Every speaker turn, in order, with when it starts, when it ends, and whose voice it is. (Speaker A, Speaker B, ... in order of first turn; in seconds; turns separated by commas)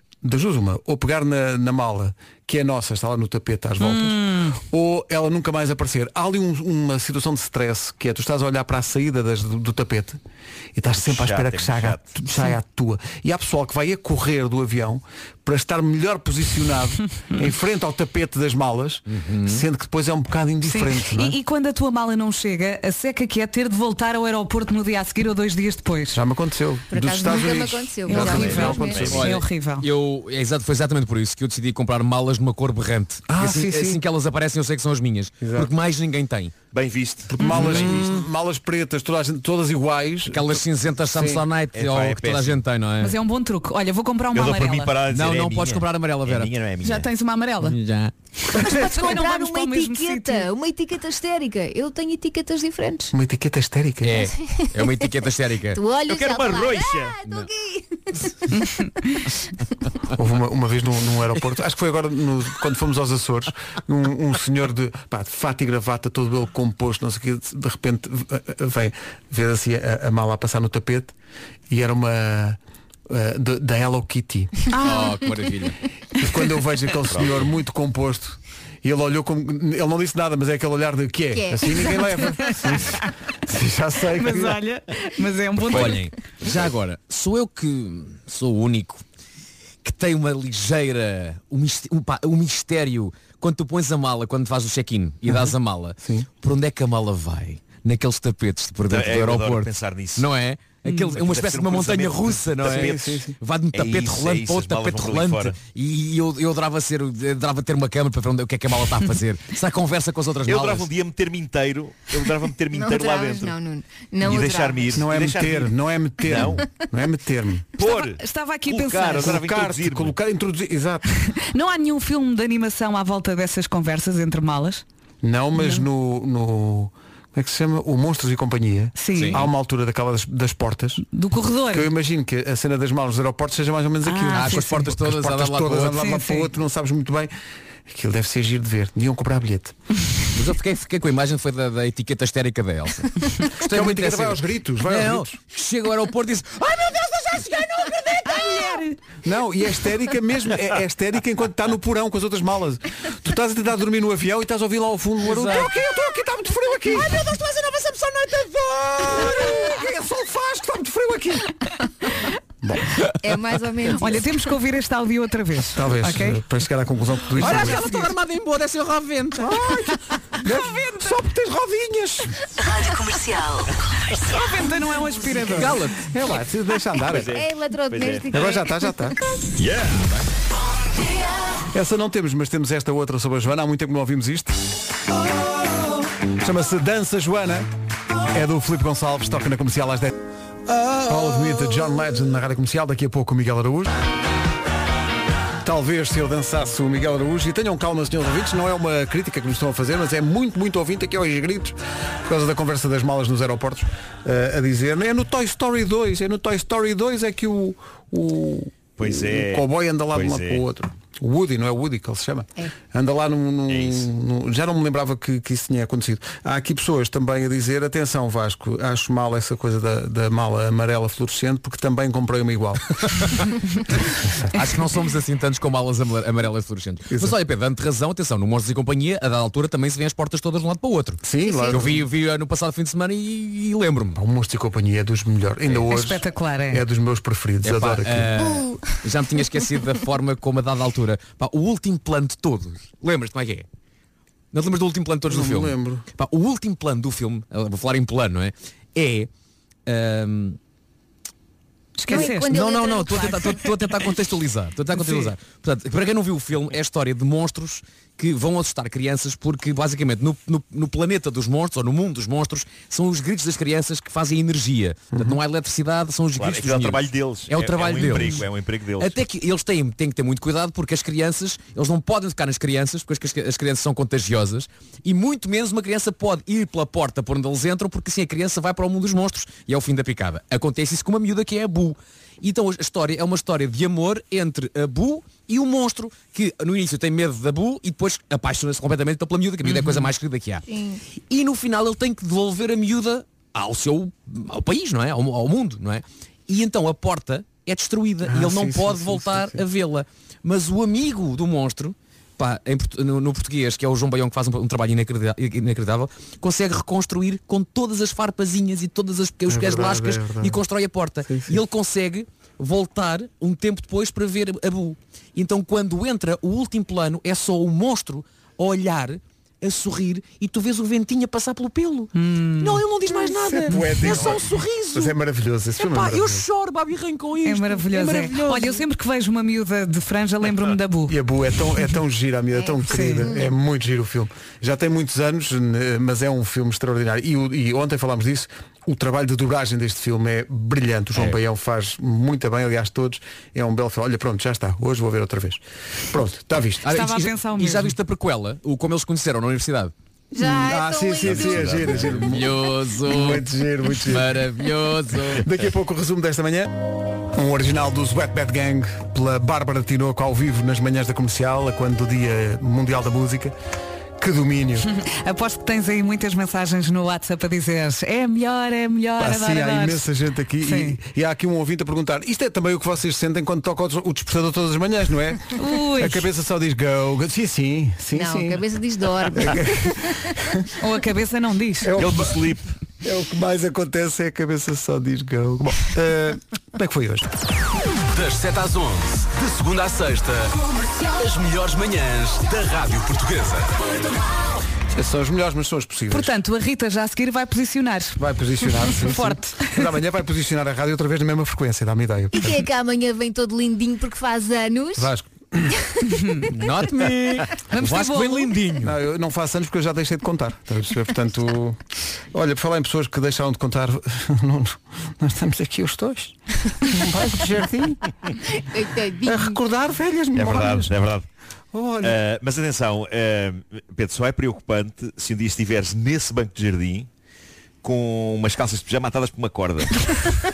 Speaker A: 0.2-10.2, Speaker B: 3.8-4.6, Speaker A: 10.8-21.4, Speaker C: 11.0-12.0, Speaker D: 19.1-19.6, Speaker B: 20.6-26.2, Speaker A: 26.1-29.2, Speaker E: 26.9-29.0, Speaker B: 28.1-29.9, Speaker C: 28.3-29.3, Speaker D: 28.9-36.5, Speaker A: 33.3-34.0, Speaker A: 35.4-35.7, Speaker C: 36.7-37.4, Speaker A: 37.3-41.4, Speaker B: 37.4-38.0, Speaker D: 37.5-38.1, Speaker D: 40.3-43.1, Speaker C: 41.7-42.6, Speaker B: 43.0-44.9, Speaker C: 44.3-47.1, Speaker D: 45.1-46.5, Speaker B: 46.8-47.8, Speaker D: 47.6-48.1, Speaker B: 48.5-50.5, Speaker E: 48.5-53.1, Speaker A: 53.1-54.3, Speaker D: 54.0-55.8, Speaker E: 54.2-55.1, Speaker E: 55.7-58.7, Speaker C: 56.1-57.2, Speaker B: 58.5-59.2, Speaker A: 60.1-71.1, Speaker A: 71.7-74.6, Speaker B: 74.7-75.2, Speaker D: 74.8-75.8, Speaker A: 76.2-84.6, Speaker C: 77.1-77.5, Speaker E: 81.3-82.5, Speaker B: 82.4-83.1, Speaker B: 84.2-86.0, Speaker D: 85.7-89.0, Speaker D: 89.8-110.9, Speaker A: 95.3-96.3, Speaker C: 98.9-100.3, Speaker B: 100.8-101.2, Speaker C: 101.2-103.1, Speaker A: 102.6-103.3, Speaker C: 103.7-105.6, Speaker C: 110.4-113.6, Speaker E: 112.7-115.0, Speaker C: 114.2-116.6, Speaker A: 114.9-117.7, Speaker E: 116.4-116.8, Speaker C: 117.8-120.2, Speaker B: 117.8-119.4, Speaker A: 119.2-121.1, Speaker B: 121.2-124.8, Speaker A: 125.2-131.1, Speaker B: 125.5-125.9, Speaker B: 129.0-129.5, Speaker D: 129.1-129.4, Speaker B: 131.1-131.9, Speaker A: 131.7-137.3, Speaker B: 134.0-134.8, Speaker D: 134.3-136.1, Speaker B: 135.9-136.5, Speaker A: 137.8-139.8, Speaker D: 140.3-148.8, Speaker A: 143.6-145.3, Speaker B: 148.2-149.0, Speaker A: 149.2-157.2, Speaker D: 155.2-155.7, Speaker D: 156.9-159.4, Speaker A: 158.9-161.5, Speaker A: 162.6-162.9, Speaker E: 163.2-164.5, Speaker B: 163.9-166.4, Speaker A: 165.6-167.9, Speaker D: 167.3-169.6, Speaker B: 167.4-168.1, Speaker A: 169.3-172.4, Speaker B: 174.2-175.8, Speaker D: 175.5-176.0, Speaker A: 176.0-177.4, Speaker C: 177.0-178.3, Speaker E: 177.2-179.1, Speaker A: 178.3-179.2, Speaker D: 179.6-180.2, Speaker A: 181.7-184.6, Speaker A: 186.4-187.7, Speaker A: 188.3-190.2, Speaker A: 191.0-194.0, Speaker A: 195.6-223.4, Speaker C: 209.0-210.6, Speaker C: 213.7-214.1, Speaker D: 224.5-234.2, Speaker A: 227.1-227.3, Speaker A: 231.2-232.0, Speaker E: 231.4-232.0, Speaker A: 234.1-238.5, Speaker B: 235.7-236.8, Speaker D: 237.6-243.7, Speaker E: 238.4-238.9, Speaker D: 244.5-249.3, Speaker A: 245.2-246.1, Speaker D: 249.8-250.6, Speaker B: 252.0-252.5, Speaker E: 252.1-253.7, Speaker D: 252.1-268.5, Speaker B: 254.9-255.3, Speaker C: 266.4-269.2, Speaker B: 268.0-268.4, Speaker D: 269.0-290.6, Speaker B: 289.6-290.1, Speaker E: 290.7-291.0, Speaker D: 291.3-325.1, Speaker A: 298.2-299.6, Speaker A: 309.5-310.6, Speaker A: 311.2-311.6, Speaker B: 322.1-322.8, Speaker A: 323.4-326.5, Speaker D: 325.8-328.8, Speaker B: 327.4-331.2, Speaker A: 331.1-346.9, Speaker E: 332.5-333.5, Speaker B: 332.9-333.3, Speaker D: 346.8-349.9, Speaker B: 346.9-347.9, Speaker E: 350.3-352.2, Speaker A: 350.3-354.4, Speaker D: 351.8-355.6, Speaker A: 355.1-356.7, Speaker A: 357.3-363.5, Speaker A: 364.2-364.9, Speaker B: 364.8-370.0, Speaker A: 369.2-378.7, Speaker B: 370.6-371.0, Speaker B: 375.6-376.2, Speaker E: 378.1-380.3, Speaker A: 379.2-380.7, Speaker B: 380.8-381.9, Speaker A: 381.8-382.5, Speaker C: 381.9-382.7, Speaker A: 383.0-387.3, Speaker F: 388.1-393.9, Speaker A: 394.9-396.3, Speaker B: 396.1-398.2, Speaker A: 398.2-402.6, Speaker B: 398.8-399.8, Speaker E: 402.3-405.1, Speaker A: 404.9-405.7, Speaker E: 405.7-406.0, Speaker B: 406.1-406.5, Speaker D: 406.5-409.0, Speaker B: 407.7-408.6, Speaker A: 408.8-411.8, Speaker A: 412.3-418.1, Speaker E: 418.5-419.6, Speaker A: 419.2-420.9, Speaker C: 420.3-421.2, Speaker A: 421.7-422.2, Speaker C: 422.0-427.1, Speaker C: 427.8-430.2